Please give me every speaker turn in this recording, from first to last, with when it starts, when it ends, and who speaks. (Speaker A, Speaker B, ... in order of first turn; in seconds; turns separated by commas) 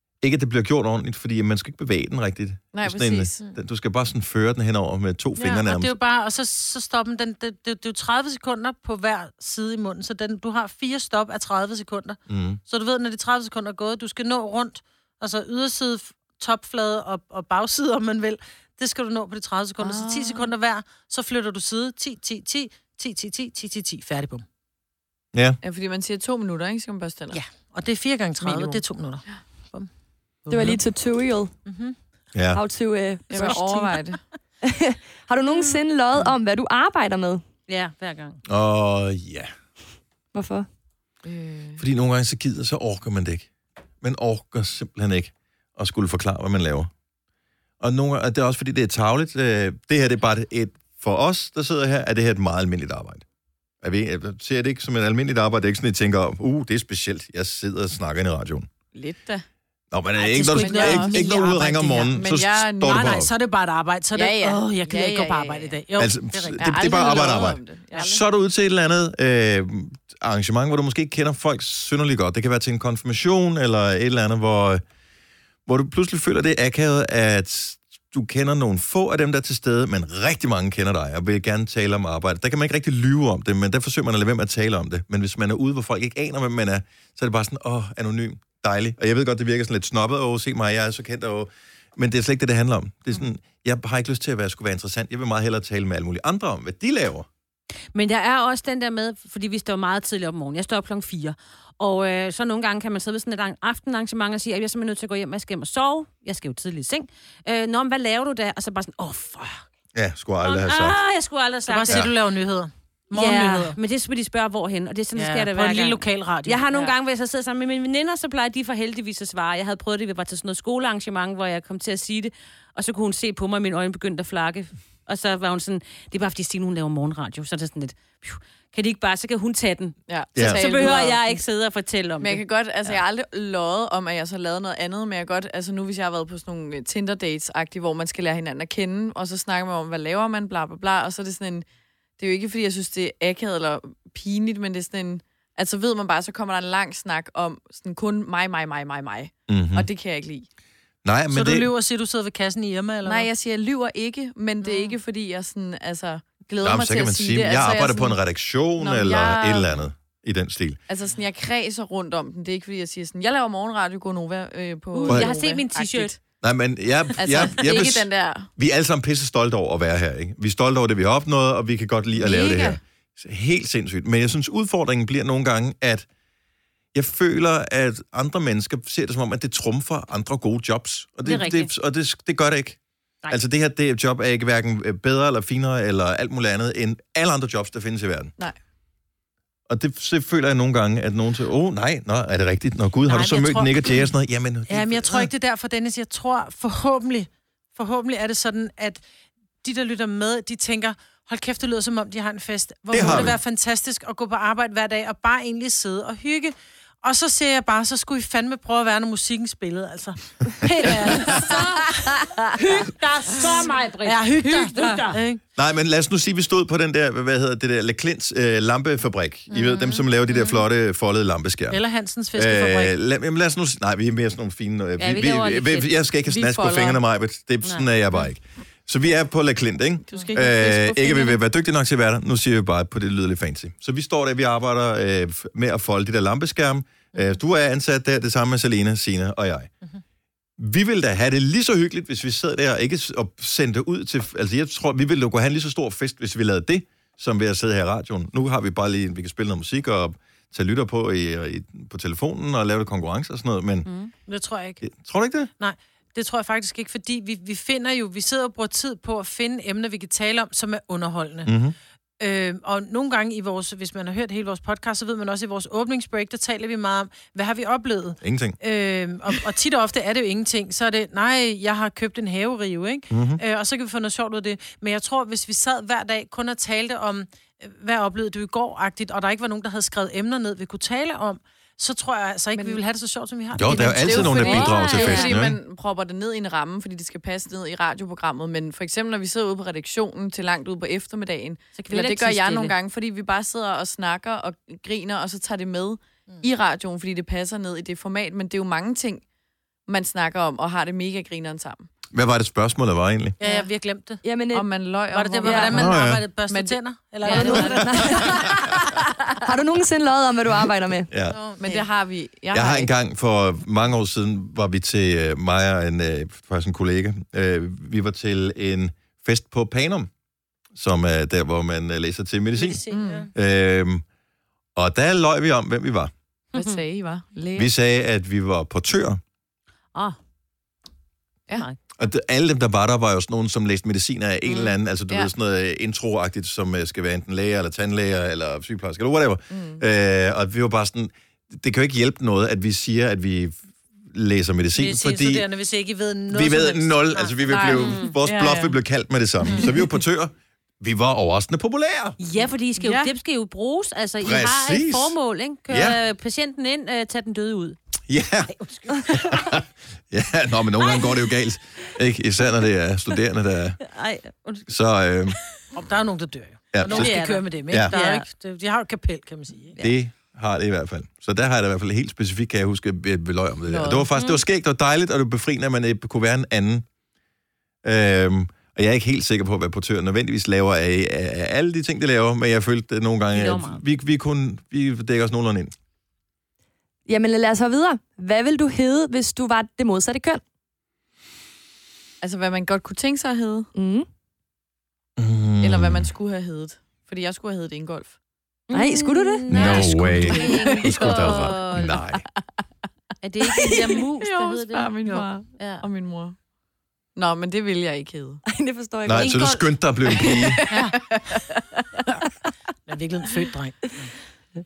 Speaker A: 0.2-6.0, Speaker B: 2.7-3.5, Speaker C: 5.4-24.4, Speaker A: 12.3-12.6, Speaker B: 19.8-20.5, Speaker A: 25.3-25.6, Speaker B: 25.6-27.4, Speaker C: 27.3-29.9, Speaker B: 28.4-28.8, Speaker C: 30.5-30.8, Speaker D: 30.5-31.5, Speaker C: 31.7-32.0, Speaker A: 32.3-32.6, Speaker D: 32.5-34.0, Speaker B: 33.3-34.2, Speaker D: 34.6-37.4, Speaker E: 37.7-38.4, Speaker A: 38.5-39.5, Speaker D: 40.3-40.7, Speaker B: 41.2-41.8, Speaker A: 41.8-43.5, Speaker A: 44.0-46.9, Speaker A: 47.8-53.2, Speaker A: 53.8-58.7, Speaker B: 58.9-59.4, Speaker A: 59.9-63.3, Speaker E: 60.2-61.6, Speaker C: 60.4-62.1, Speaker B: 60.6-61.2, Speaker B: 62.0-63.2, Speaker C: 62.8-68.1, Speaker B: 64.1-65.8, Speaker A: 66.0-74.8, Speaker B: 66.6-68.2, Speaker A: 75.7-97.3, Speaker E: 97.9-109.6, Speaker A: 109.9-111.0, Speaker E: 110.4-112.1, Speaker C: 111.7-113.8, Speaker E: 113.1-133.0, Speaker C: 115.1-116.9, Speaker B: 130.1-131.4, Speaker A: 130.3-130.9, Speaker B: 132.2-141.7, Speaker B: 142.2-150.5, Speaker A: 149.5-149.9, Speaker A: 151.0-151.7, Speaker C: 151.3-153.3, Speaker B: 153.0-158.2, Speaker A: 156.6-160.8, Speaker B: 158.8-159.7, Speaker B: 160.9-166.2, Speaker E: 164.9-166.1, Speaker A: 166.4-176.1, Speaker B: 167.2-168.5, Speaker B: 172.2-172.8, Speaker A: 176.9-188.3, Speaker E: 181.2-181.7, Speaker A: 189.7-195.3, Speaker C: 193.1-194.1, Speaker C: 194.7-199.0, Speaker C: 199.6-215.4, Speaker A: 202.9-203.4, Speaker E: 211.2-215.2, Speaker A: 215.6-221.8, Speaker C: 219.7-220.0, Speaker C: 221.7-222.9, Speaker A: 222.3-239.7, Speaker E: 225.0-225.9, Speaker B: 226.3-227.0, Speaker B: 230.1-231.4, Speaker A: 240.6-253.9, Speaker E: 253.8-254.1, Speaker C: 254.3-254.8, Speaker A: 254.8-255.5, Speaker C: 255.6-261.5, Speaker A: 261.5-261.8, Speaker C: 262.2-284.7, Speaker A: 268.2-268.6, Speaker A: 273.1-273.4, Speaker B: 282.5-282.8, Speaker A: 283.5-285.6, Speaker B: 283.7-299.2, Speaker E: 284.3-285.3, Speaker E: 291.8-292.8, Speaker B: 299.9-301.9, Speaker A: 302.1-303.4, Speaker C: 303.4-304.2, Speaker D: 304.2-304.7, Speaker B: 304.5-307.8, Speaker C: 305.1-308.4, Speaker D: 305.4-305.9, Speaker A: 305.7-306.2, Speaker E: 307.2-307.8, Speaker D: 307.2-311.1, Speaker A: 311.1-311.4, Speaker C: 311.3-311.9, Speaker B: 311.6-312.9, Speaker A: 312.5-320.1, Speaker A: 320.7-322.8, Speaker C: 322.5-323.3, Speaker B: 322.9-323.3, Speaker A: 323.3-324.0, Speaker A: 324.8-326.1, Speaker E: 326.5-326.8, Speaker B: 326.5-327.7, Speaker A: 327.5-329.2, Speaker A: 332.0-345.5, Speaker E: 334.5-334.7, Speaker B: 339.5-339.8, Speaker C: 344.8-347.4, Speaker A: 346.3-352.2, Speaker B: 347.5-348.8, Speaker E: 347.8-348.1, Speaker E: 352.2-357.8, Speaker B: 352.8-353.1, Speaker A: 354.2-355.1, Speaker A: 355.7-356.0, Speaker A: 358.1-363.8, Speaker E: 358.7-359.4, Speaker E: 363.8-364.7, Speaker A: 364.7-365.4, Speaker C: 365.7-369.8, Speaker A: 366.7-367.2, Speaker E: 366.8-368.2, Speaker A: 367.7-367.9, Speaker A: 369.8-376.8, Speaker B: 373.7-374.1, Speaker E: 374.1-374.4, Speaker A: 377.8-385.7, Speaker E: 383.3-383.8, Speaker D: 387.1-390.4, Speaker B: 392.2-393.7, Speaker D: 393.8-394.1, Speaker A: 395.2-396.1, Speaker B: 395.6-398.2, Speaker E: 398.7-402.0, Speaker D: 398.7-399.9, Speaker A: 399.5-402.2, Speaker B: 400.0-401.6, Speaker E: 403.2-405.8, Speaker B: 403.6-406.4, Speaker B: 407.1-408.4, Speaker D: 408.5-409.5, Speaker A: 409.0-410.7, Speaker E: 409.1-409.6, Speaker B: 410.5-411.8, Speaker C: 410.7-411.1, Speaker C: 412.9-414.1